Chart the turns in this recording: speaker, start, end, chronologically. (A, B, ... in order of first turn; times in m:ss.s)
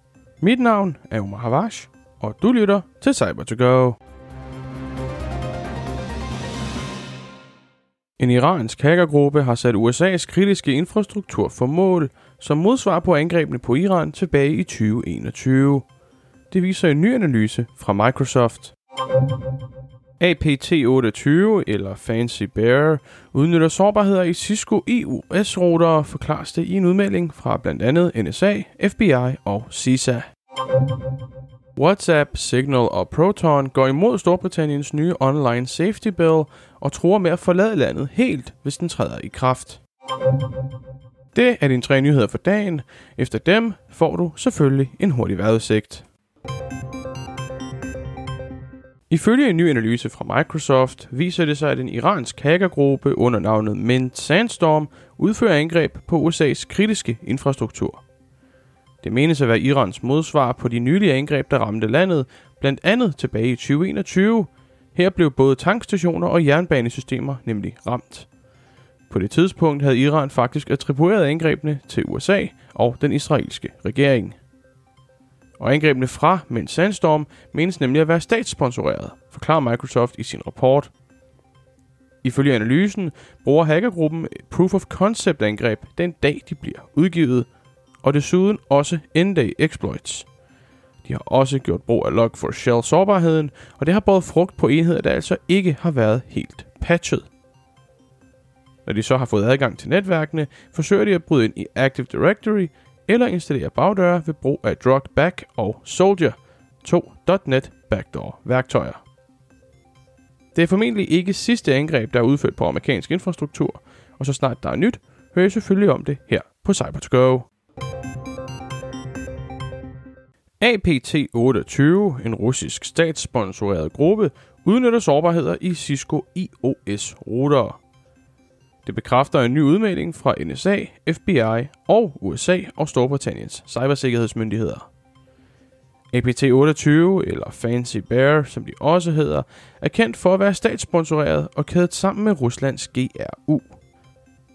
0:00.4-0:04.0 A
0:08.2-0:15.9 A
0:16.5-0:18.7 A
0:20.2-0:30.3 A
0:31.8-0:39.8 A
0:41.3-0:46.1 A
0:49.1-0:58.0 A
0:59.0-1:08.3 A
1:09.1-1:14.4 A
1:15.6-1:20.9 A
1:22.2-1:27.5 A
1:28.0-1:30.3 A
1:31.0-1:37.3 A
1:38.8-1:49.0 A
1:50.5-1:57.5 A
2:00.6-2:07.8 A
2:08.8-2:14.9 A
2:16.1-2:23.8 A